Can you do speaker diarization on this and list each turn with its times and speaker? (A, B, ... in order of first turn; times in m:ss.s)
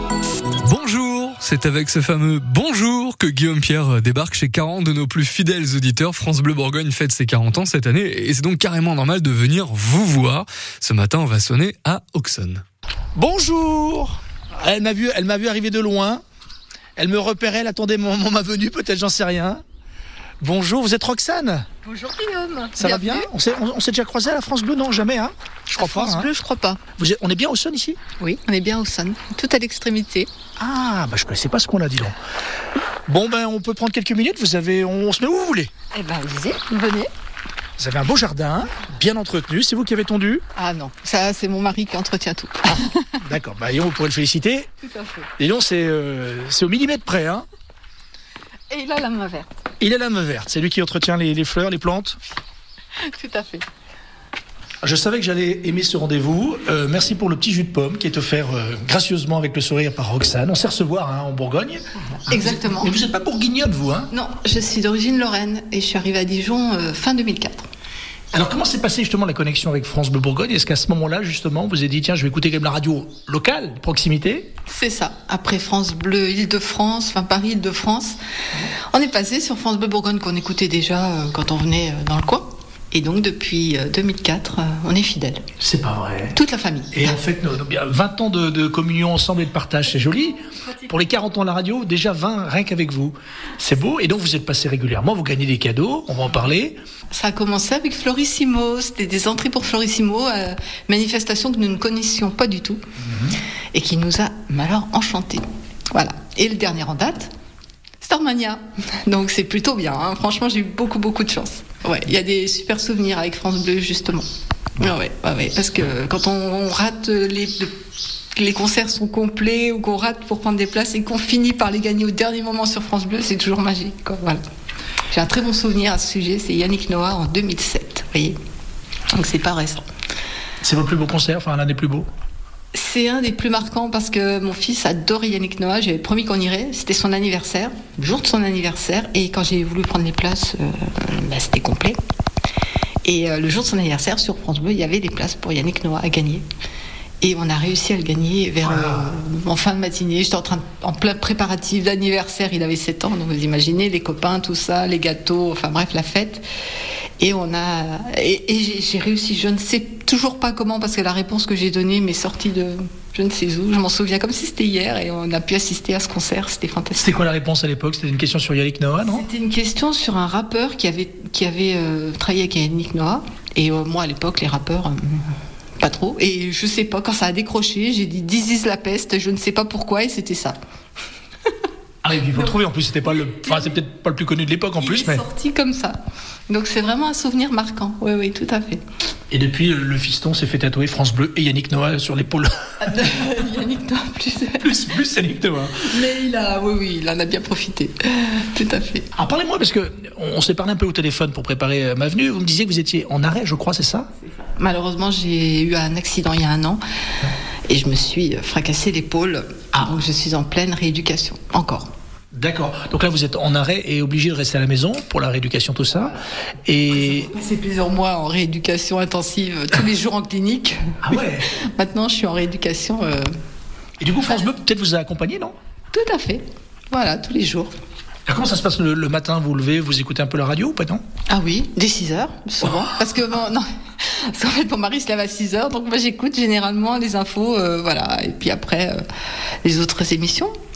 0:00.6-0:12.6 A
0:13.2-0:16.2 B
0:17.0-0:19.6 B
0:20.4-0:21.6 B
0:21.8-0:23.3 C
0:22.8-0:26.3 B
0:25.8-0:26.8 C
0:27.0-0:28.0 B
0:28.2-0:30.3 C
0:30.6-0:32.2 B
0:33.1-0:35.7 B
0:35.9-0:37.1 C
0:37.8-0:40.4 B
0:40.6-0:43.2 C
0:42.7-0:44.7 B
0:44.8-0:45.3 C
0:45.4-0:47.4 B
0:48.7-0:49.6 C
0:49.8-0:52.2 B
0:53.0-0:53.6 C
0:54.8-1:04.1 B
1:02.3-1:03.0 C
1:04.1-1:07.6 C
1:08.3-1:14.5 B
1:14.7-1:18.2 C
1:18.9-1:25.4 C
1:25.6-1:26.4 B
1:26.3-1:27.2 C
1:26.9-1:36.8 B
1:37.1-1:42.8 C
1:43.0-1:43.4 B
1:43.7-1:47.3 C
1:48.0-1:54.2 C
1:54.8-1:57.7 C
1:58.3-2:04.4 C
2:05.1-2:08.4 C
2:09.1-2:09.8 C
2:10.6-2:12.1 B
2:12.7-2:22.0 C
2:23.0-2:26.4 C
2:27.2-2:36.4 C
2:28.6-2:29.1 B
2:37.2-2:47.1 C
2:47.0-2:49.2 B
2:49.1-3:00.6 C
3:02.0-3:05.2 B
3:04.8-3:08.8 C
3:09.3-3:12.8 B
3:12.8-3:14.8 C
3:14.6-3:15.9 B
3:15.8-3:19.1 C
3:19.2-3:24.1 B
3:24.4-3:26.8 C
3:27.7-3:31.9 C
3:32.3-3:37.3 B
3:37.0-3:43.3 C
3:41.0-3:41.4 B
3:44.0-3:45.5 B
3:45.9-3:47.7 C
3:48.3-3:51.0 B
3:51.3-3:59.0 C
3:59.6-4:00.5 C